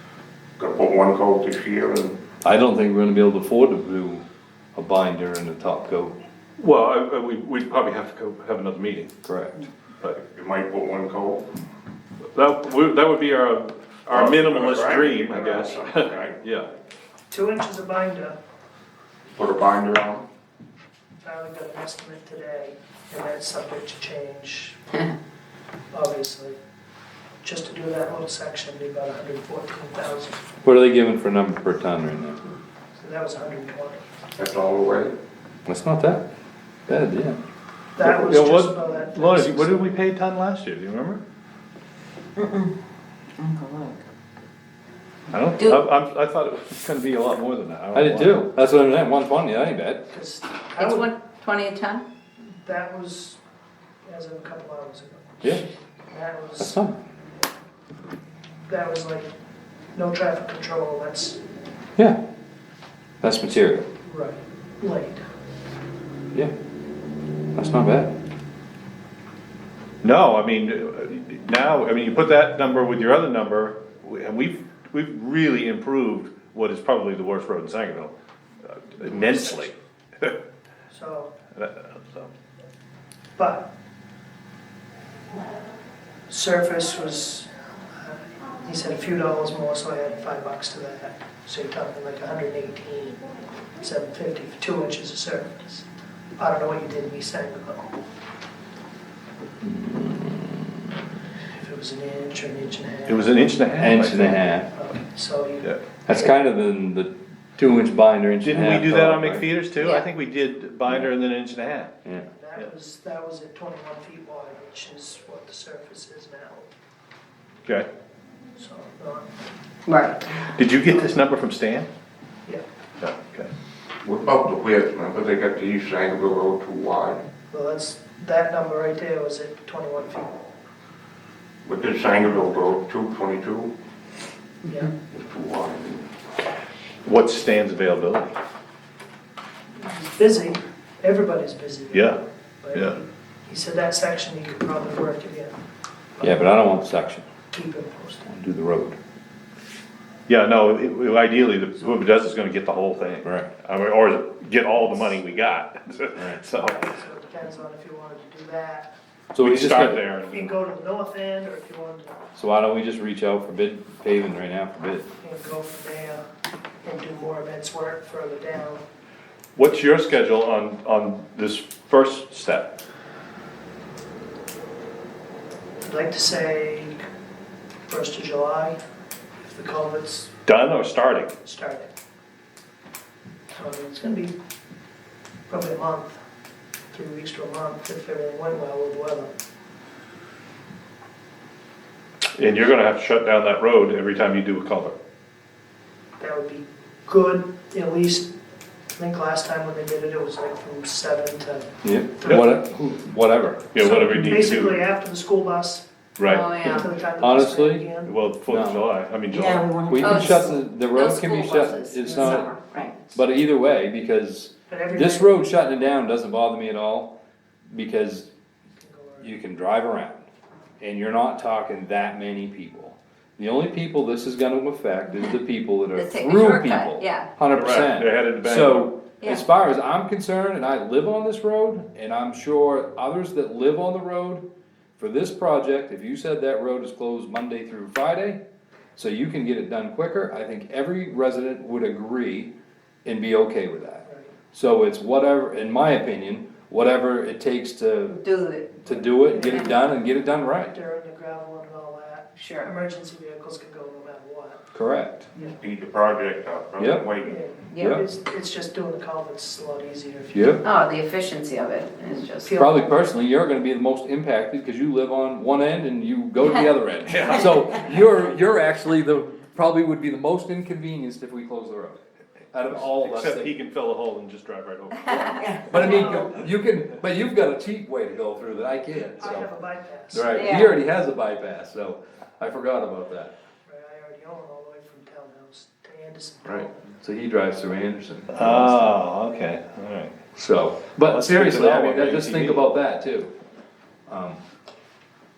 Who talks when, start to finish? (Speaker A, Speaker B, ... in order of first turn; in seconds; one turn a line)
Speaker A: 0.6-2.2
Speaker B: 2.4-4.2
Speaker B: 4.7-6.1
Speaker C: 6.6-9.1
Speaker B: 9.2-9.6
Speaker A: 10.1-11.4
Speaker C: 12.3-16.7
Speaker A: 14.1-16.4
Speaker D: 17.3-18.4
Speaker A: 19.3-20.2
Speaker D: 21.2-25.0
Speaker D: 25.9-26.6
Speaker D: 27.4-30.4
Speaker B: 30.6-32.5
Speaker D: 33.0-34.0
Speaker A: 34.3-35.1
Speaker B: 35.6-36.2
Speaker B: 36.9-37.4
Speaker D: 38.0-40.0
Speaker C: 38.0-41.2
Speaker E: 42.4-42.7
Speaker E: 43.4-44.0
Speaker C: 45.3-48.4
Speaker B: 47.9-50.0
Speaker D: 50.1-51.1
Speaker E: 50.8-52.0
Speaker D: 52.6-53.4
Speaker D: 54.0-55.4
Speaker D: 56.1-56.8
Speaker B: 56.6-56.9
Speaker D: 58.7-59.3
Speaker D: 59.9-61.4
Speaker B: 63.2-63.9
Speaker D: 64.0-65.2
Speaker B: 67.5-68.1
Speaker C: 70.0-78.1
Speaker C: 78.6-80.3
Speaker D: 79.0-79.7
Speaker D: 80.9-81.3
Speaker C: 81.5-82.3
Speaker D: 83.4-83.7
Speaker D: 86.3-93.2
Speaker D: 93.8-95.8
Speaker D: 96.4-97.9
Speaker B: 99.6-100.7
Speaker D: 101.5-103.5
Speaker C: 103.1-104.4
Speaker B: 103.8-104.7
Speaker D: 104.7-106.3
Speaker B: 106.0-109.6
Speaker C: 108.4-111.9
Speaker E: 109.8-110.0
Speaker D: 112.3-116.7
Speaker D: 118.6-119.3
Speaker E: 119.9-120.3
Speaker C: 120.5-121.9
Speaker C: 123.0-123.5
Speaker A: 124.0-127.2
Speaker D: 127.5-130.4
Speaker A: 131.6-133.7
Speaker D: 134.6-134.9
Speaker A: 135.0-136.1
Speaker C: 137.0-138.3
Speaker D: 139.8-145.6
Speaker C: 141.9-142.2
Speaker C: 142.7-143.0
Speaker D: 146.2-146.9
Speaker B: 146.2-147.3
Speaker D: 147.5-148.3
Speaker B: 148.3-148.9
Speaker C: 150.3-156.8
Speaker B: 153.2-153.5
Speaker B: 156.2-156.4
Speaker D: 156.6-158.9
Speaker B: 159.3-160.1
Speaker C: 159.4-160.5
Speaker D: 160.2-162.3
Speaker B: 162.3-165.1
Speaker D: 165.2-166.2
Speaker D: 166.8-168.8
Speaker C: 169.5-172.8
Speaker D: 175.8-177.0
Speaker D: 177.9-178.7
Speaker D: 179.4-180.3
Speaker C: 180.4-181.3
Speaker D: 181.4-181.9
Speaker D: 183.5-184.3
Speaker D: 185.5-186.2
Speaker D: 186.9-189.3
Speaker C: 192.3-194.9
Speaker D: 196.2-198.3
Speaker D: 198.9-202.4
Speaker B: 201.8-203.7
Speaker C: 203.7-204.8
Speaker D: 203.8-205.8
Speaker C: 206.2-206.6
Speaker E: 206.2-206.9
Speaker D: 206.6-208.2
Speaker B: 206.6-208.9
Speaker C: 208.0-210.1
Speaker E: 209.3-213.0
Speaker B: 209.9-212.5
Speaker B: 213.1-217.1
Speaker D: 214.7-215.4
Speaker B: 217.7-218.3
Speaker D: 218.8-219.3
Speaker B: 219.2-220.3
Speaker B: 220.8-234.4
Speaker E: 225.9-227.3
Speaker C: 227.5-228.9
Speaker B: 235.0-238.4
Speaker B: 238.9-242.5
Speaker B: 243.0-248.2
Speaker D: 244.0-244.3
Speaker E: 248.1-248.8
Speaker B: 248.8-250.7
Speaker D: 248.9-250.0
Speaker D: 250.7-254.6
Speaker E: 252.3-252.7
Speaker B: 254.7-255.3
Speaker A: 255.5-257.4
Speaker B: 256.8-257.1
Speaker D: 257.2-260.6
Speaker E: 257.7-258.0
Speaker B: 257.8-258.0
Speaker B: 260.3-260.6
Speaker E: 260.6-262.6
Speaker D: 262.4-262.9
Speaker B: 262.6-273.5
Speaker C: 267.1-267.6
Speaker C: 272.6-276.2
Speaker E: 275.1-276.3
Speaker B: 275.7-279.4
Speaker D: 279.1-280.5
Speaker B: 280.1-283.3
Speaker E: 280.3-280.8
Speaker D: 283.6-286.9
Speaker B: 286.5-289.0
Speaker C: 288.3-290.2
Speaker B: 290.3-293.3
Speaker C: 291.0-292.6
Speaker B: 294.1-294.4